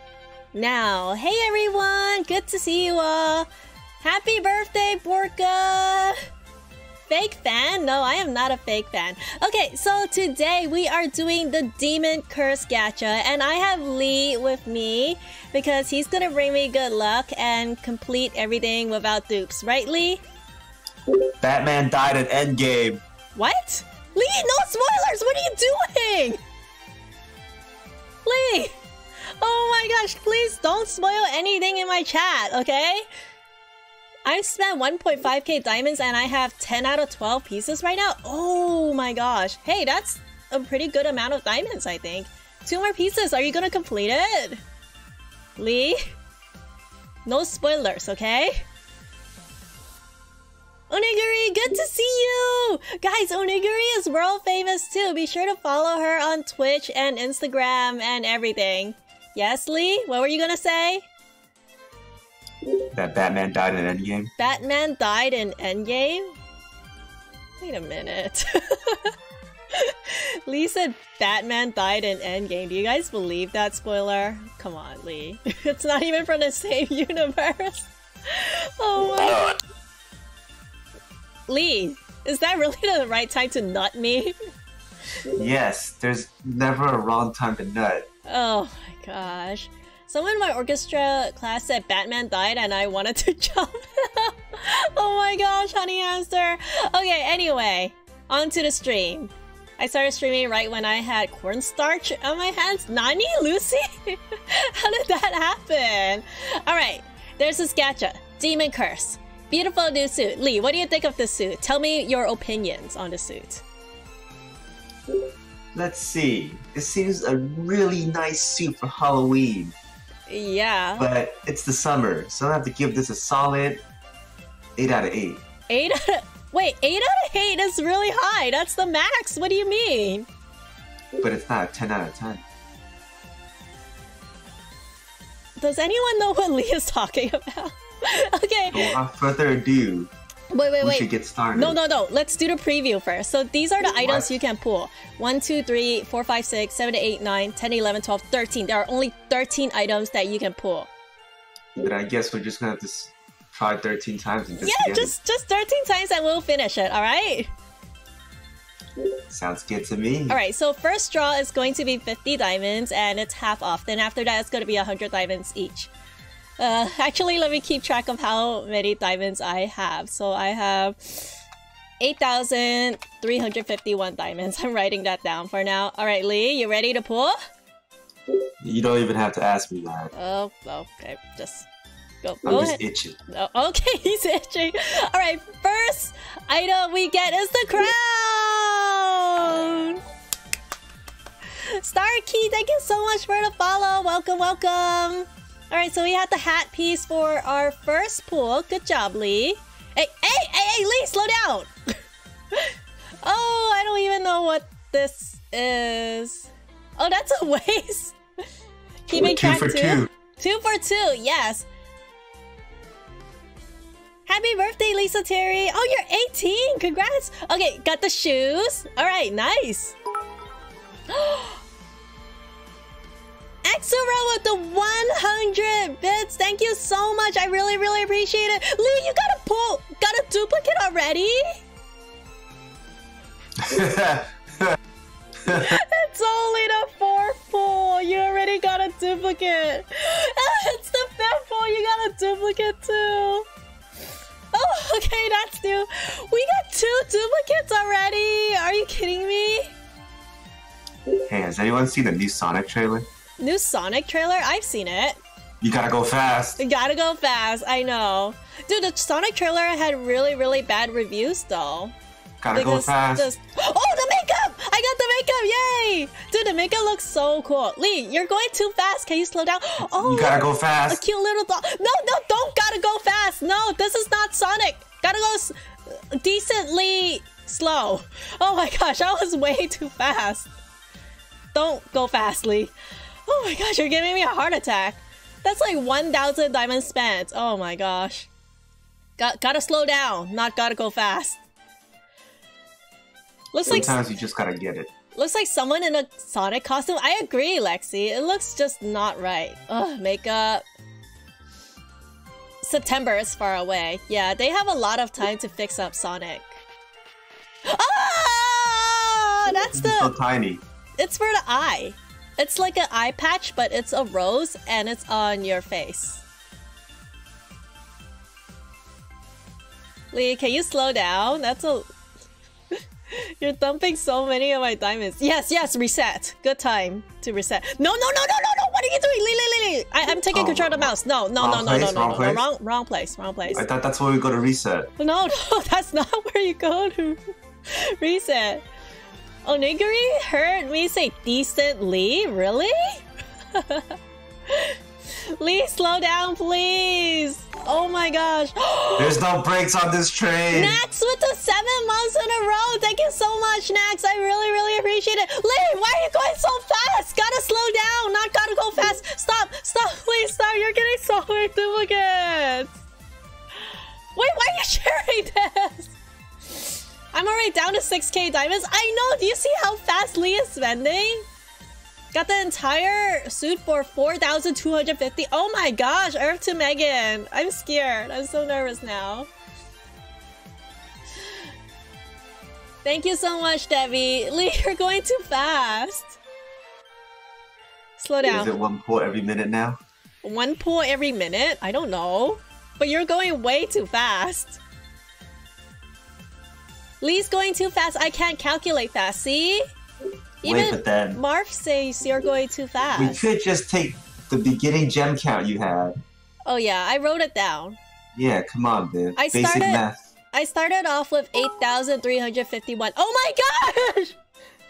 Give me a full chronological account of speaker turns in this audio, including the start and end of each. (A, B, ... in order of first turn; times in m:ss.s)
0:00.5-0:03.5 A
0:04.0-0:06.2 A
0:07.1-0:20.2 A
0:21.4-0:23.0 B
0:23.3-0:26.4 A
0:28.2-0:28.8 A
0:29.4-0:33.0 A
0:34.2-0:44.6 A
0:45.6-0:46.0 A
0:47.2-0:48.6 A
0:50.9-1:01.1 A
1:02.9-1:04.3 B
1:04.4-1:06.3 A
1:07.6-1:09.1 A
1:09.7-1:19.6 A
1:21.5-1:24.3 A
1:25.3-1:28.1 B
1:28.3-1:53.6 A
1:55.7-1:59.7 B
2:00.3-2:01.0 A
2:01.0-2:03.8 B
2:04.8-2:05.4 B
2:05.7-2:10.3 A
2:11.2-2:12.4 B
2:15.6-2:19.0 A
2:18.7-2:20.1 B
2:20.5-2:30.9 A
2:20.8-2:21.8 B
2:24.0-2:24.3 B
2:31.8-2:35.1 B
2:34.6-2:37.5 A
2:39.3-2:40.4 B
2:40.3-2:45.9 A
2:46.6-2:51.4 A
2:52.0-2:57.4 A
2:58.6-3:00.1 B
3:00.1-3:01.7 A
3:02.2-3:10.0 A
3:02.4-3:03.2 B
3:11.7-3:21.7 A
3:22.5-3:28.2 A
3:29.0-3:31.7 A
3:29.1-3:30.1 B
3:34.2-3:40.0 A
3:41.1-3:41.6 A
3:43.6-3:51.6 A
3:53.6-3:54.7 B
3:55.5-3:55.8 B
3:55.5-4:03.4 A
4:04.5-4:09.7 A
4:11.2-4:13.1 B
4:13.4-4:15.2 A
4:15.6-4:16.6 B
4:16.6-4:21.9 A
4:22.4-4:23.3 B
4:22.5-4:40.5 A
4:29.9-4:31.0 B
4:41.5-4:42.7 A
4:43.3-4:48.3 A
4:49.2-4:51.4 A
4:53.5-4:54.0 A
4:53.6-4:54.9 B
4:55.1-5:00.6 A
5:02.6-5:06.6 A
5:07.6-5:10.1 A
5:09.7-5:10.6 B
5:11.0-5:16.2 A
5:20.1-5:21.9 A
5:23.1-5:33.6 A
5:30.3-5:32.4 B
5:33.5-5:34.9 B
5:35.0-5:38.6 A
5:39.4-5:44.0 A
5:44.5-5:49.2 A
5:49.0-5:50.8 B
5:50.5-6:02.8 A
6:04.1-6:06.0 A
6:06.5-6:11.2 A
6:12.1-6:19.3 A
6:22.8-6:26.2 A
6:28.0-6:28.5 A
6:28.3-6:29.8 B
6:30.2-6:34.6 A
6:37.0-6:39.6 A
6:40.4-6:43.2 A
6:40.4-6:41.2 B
6:42.9-6:46.0 B
6:46.5-6:47.8 A
6:48.1-6:50.0 B
6:49.2-6:54.2 A